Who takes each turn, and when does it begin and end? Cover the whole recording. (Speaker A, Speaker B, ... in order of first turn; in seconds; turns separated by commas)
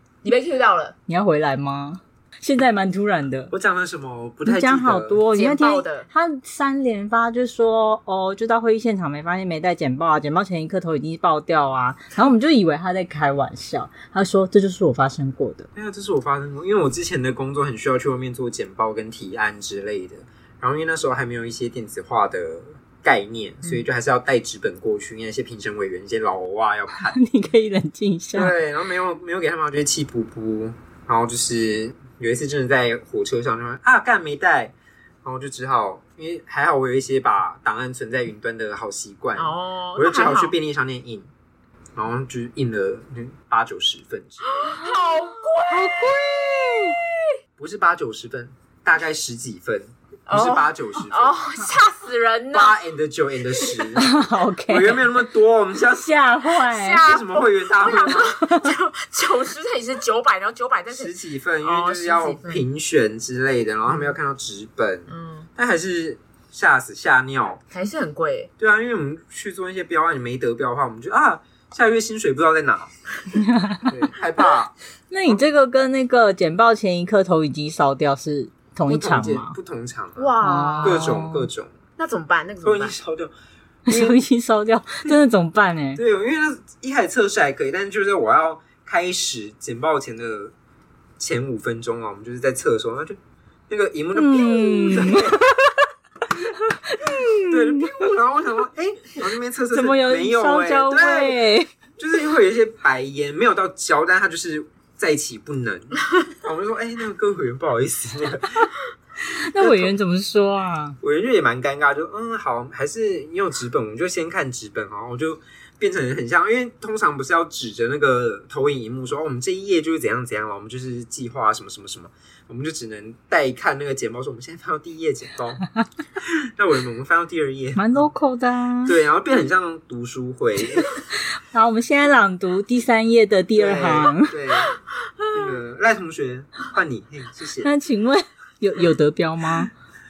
Speaker A: 0.2-0.9, Speaker B: 1.1-3.5, Speaker C: 3.5-5.2, Speaker B: 4.5-15.7, Speaker A: 5.3-6.1, Speaker C: 15.8-27.2, Speaker B: 26.9-28.5, Speaker C: 28.3-41.3, Speaker A: 39.4-40.5, Speaker C: 42.0-44.7, Speaker A: 44.5-46.2, Speaker B: 45.7-47.0, Speaker A: 46.8-47.2, Speaker C: 47.6-51.4, Speaker A: 50.3-52.8, Speaker C: 52.5-54.1, Speaker B: 54.0-55.1, Speaker C: 54.7-56.1, Speaker B: 55.9-57.0, Speaker A: 56.7-62.6, Speaker C: 57.0-58.3, Speaker B: 58.2-58.7, Speaker C: 60.9-67.6, Speaker A: 63.9-64.1, Speaker A: 65.1-65.5, Speaker A: 67.7-68.5, Speaker C: 68.6-72.9, Speaker B: 73.3-73.9, Speaker C: 73.9-74.7, Speaker B: 75.1-79.5, Speaker C: 78.9-81.7, Speaker A: 80.2-81.1, Speaker B: 80.4-81.5, Speaker A: 82.0-83.0, Speaker C: 82.6-83.3, Speaker B: 83.9-86.0, Speaker C: 83.9-84.2, Speaker C: 86.0-90.5, Speaker C: 91.2-93.2, Speaker C: 93.7-95.4, Speaker B: 94.1-95.7, Speaker B: 96.8-98.1, Speaker C: 97.4-101.4, Speaker B: 99.7-101.7, Speaker C: 102.0-108.7, Speaker B: 109.3-111.0, Speaker C: 109.6-109.9, Speaker C: 111.0-125.7, Speaker C: 126.2-128.1, Speaker B: 127.8-128.9, Speaker C: 128.8-130.9, Speaker B: 131.5-134.4, Speaker C: 133.5-134.8, Speaker C: 135.3-137.7, Speaker B: 137.6-139.7